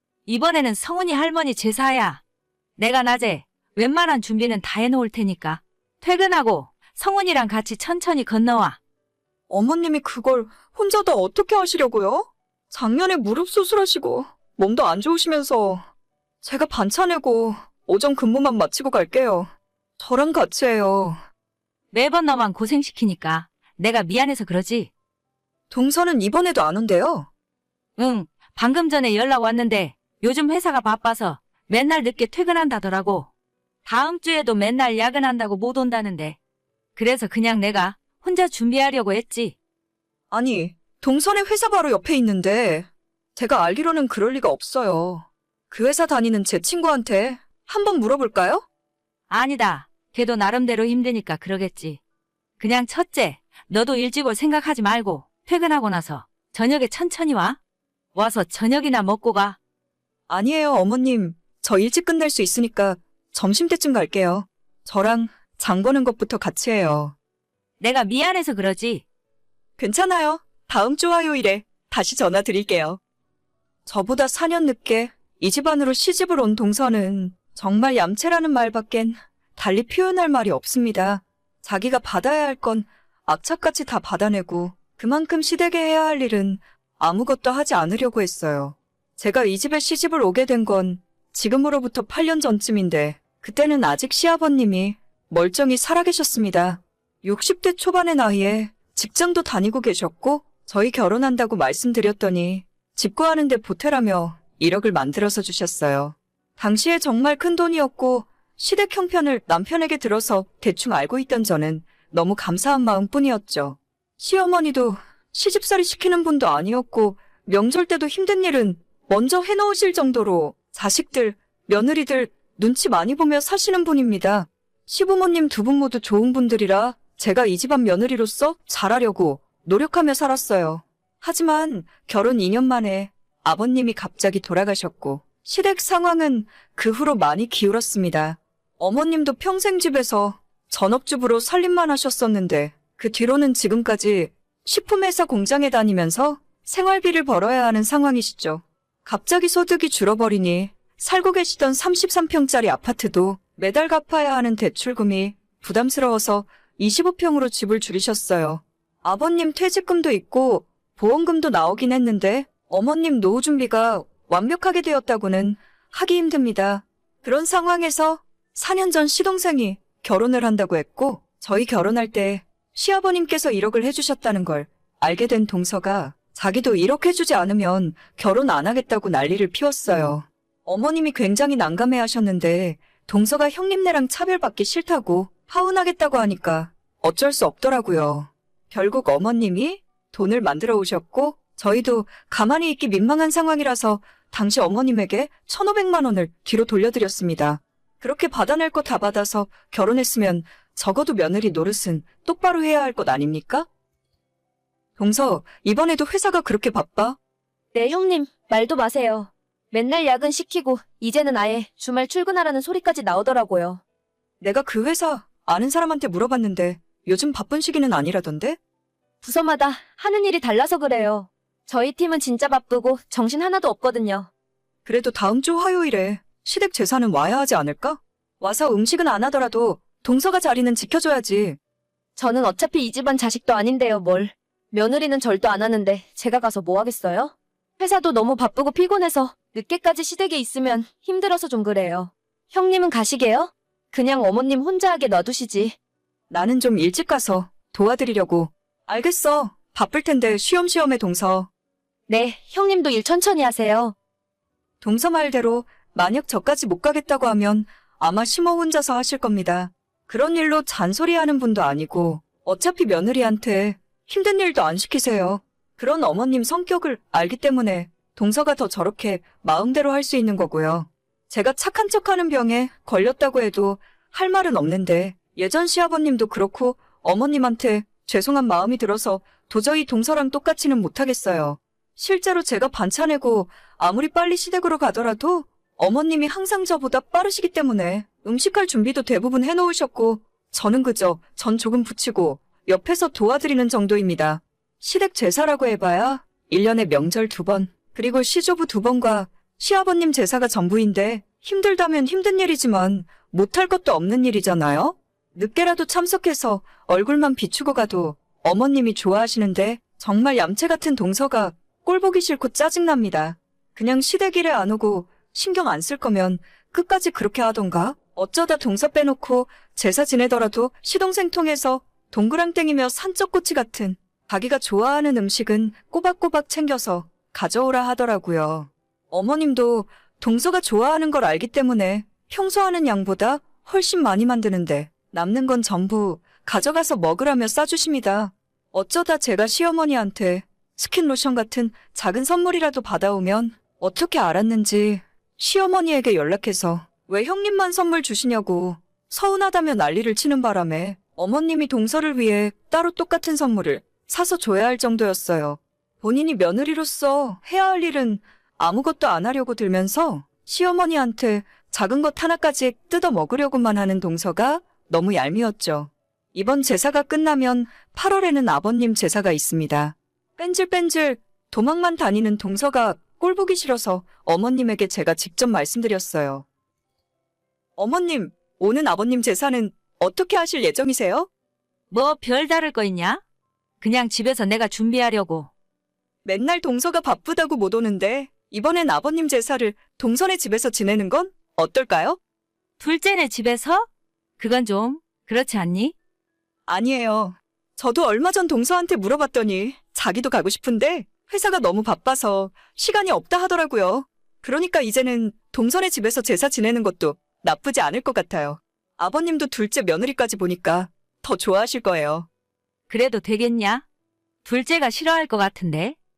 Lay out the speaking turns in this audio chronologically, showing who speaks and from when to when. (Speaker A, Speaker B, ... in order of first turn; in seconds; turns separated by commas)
Speaker A: 0.2-2.2, Speaker A: 2.8-8.8, Speaker B: 9.5-15.8, Speaker B: 16.4-21.2, Speaker A: 21.9-24.9, Speaker B: 25.7-27.3, Speaker A: 27.9-33.3, Speaker A: 33.8-36.4, Speaker A: 37.0-39.5, Speaker B: 40.3-48.6, Speaker A: 49.3-52.0, Speaker A: 52.6-57.6, Speaker A: 58.1-59.6, Speaker B: 60.3-67.1, Speaker A: 67.8-69.0, Speaker B: 69.8-73.0, Speaker B: 73.8-203.7, Speaker B: 205.0-207.2, Speaker C: 207.7-213.8, Speaker B: 214.4-218.6, Speaker C: 219.2-224.3, Speaker B: 224.8-231.6, Speaker C: 232.2-245.7, Speaker B: 246.3-251.5, Speaker C: 252.1-253.9, Speaker B: 254.8-376.4, Speaker B: 377.8-381.3, Speaker A: 381.9-383.2, Speaker A: 383.8-385.5, Speaker B: 386.2-392.2, Speaker A: 392.8-393.9, Speaker A: 394.4-395.9, Speaker B: 396.7-412.3, Speaker A: 412.9-413.8, Speaker A: 414.4-415.9